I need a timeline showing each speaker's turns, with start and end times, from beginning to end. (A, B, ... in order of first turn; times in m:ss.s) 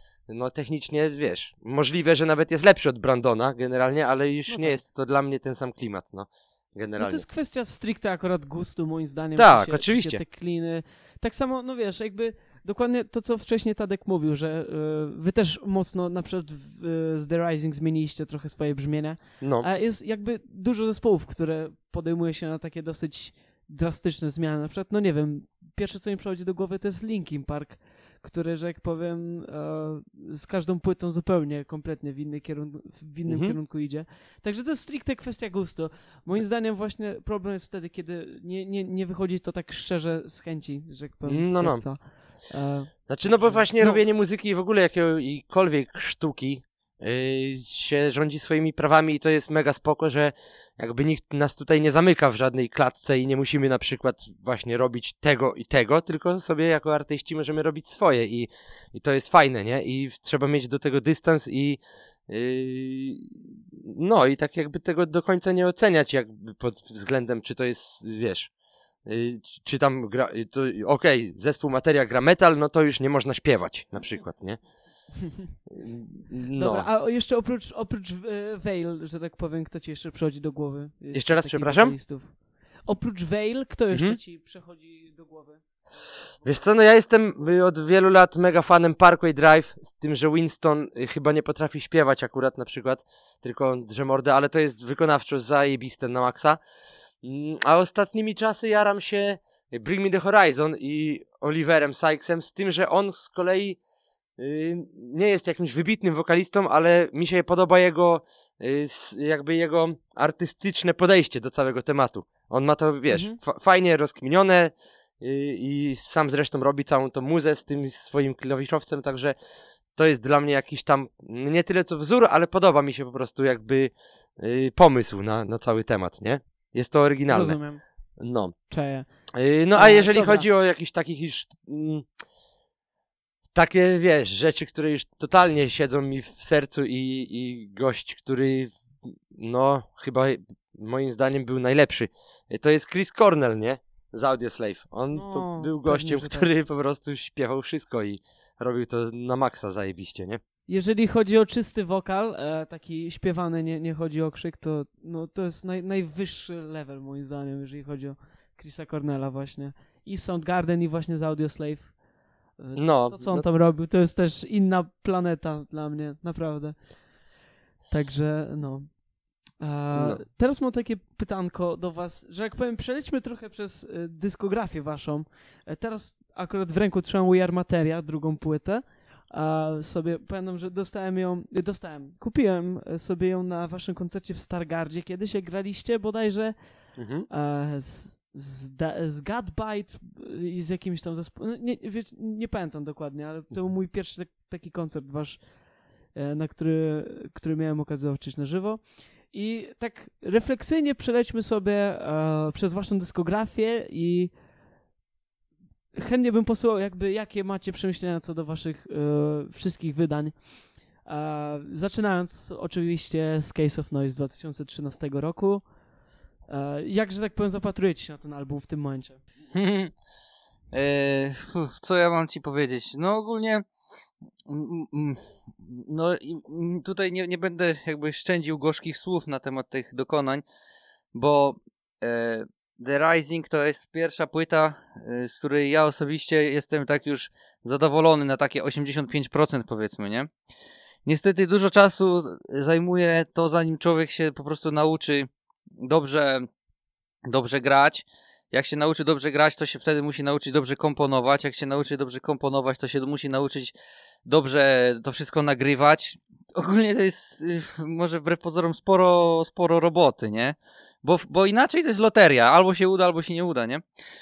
0:00.3-0:07.2 A
0:04.5-0:04.8 B
0:07.0-0:44.0 B
0:09.4-0:10.2 A
0:19.4-0:19.7 A
0:33.3-0:33.6 A
0:41.3-0:41.9 A
0:43.1-1:08.5 A
1:09.0-1:14.6 A
1:15.7-1:16.9 A
1:16.5-1:26.4 B
1:21.1-1:22.0 A
1:23.9-1:24.2 A
1:26.4-1:36.6 A
1:37.2-1:43.8 A
1:44.4-1:59.4 A
1:53.1-1:53.4 B
2:00.0-2:07.6 A
2:07.3-2:07.8 B
2:08.2-2:08.6 A
2:08.7-2:09.1 B
2:09.3-2:12.1 A
2:09.7-2:10.5 B
2:13.5-2:30.4 A
2:25.1-2:26.5 B
2:30.7-2:42.0 B
2:42.6-2:47.0 B
2:42.8-2:43.4 A
2:47.9-2:49.0 B
2:49.6-3:06.6 B
2:50.0-2:50.2 A
3:07.0-3:07.3 A
3:07.3-3:15.4 B
3:16.1-3:24.3 B
3:25.9-3:35.7 B
3:36.5-3:39.2 B
3:39.5-3:39.9 C
3:40.7-3:43.7 C
3:44.5-3:50.4 C
3:51.1-4:00.3 C
4:01.1-4:05.3 C
4:05.8-4:06.5 C
4:07.3-4:13.7 C
4:14.3-4:23.8 C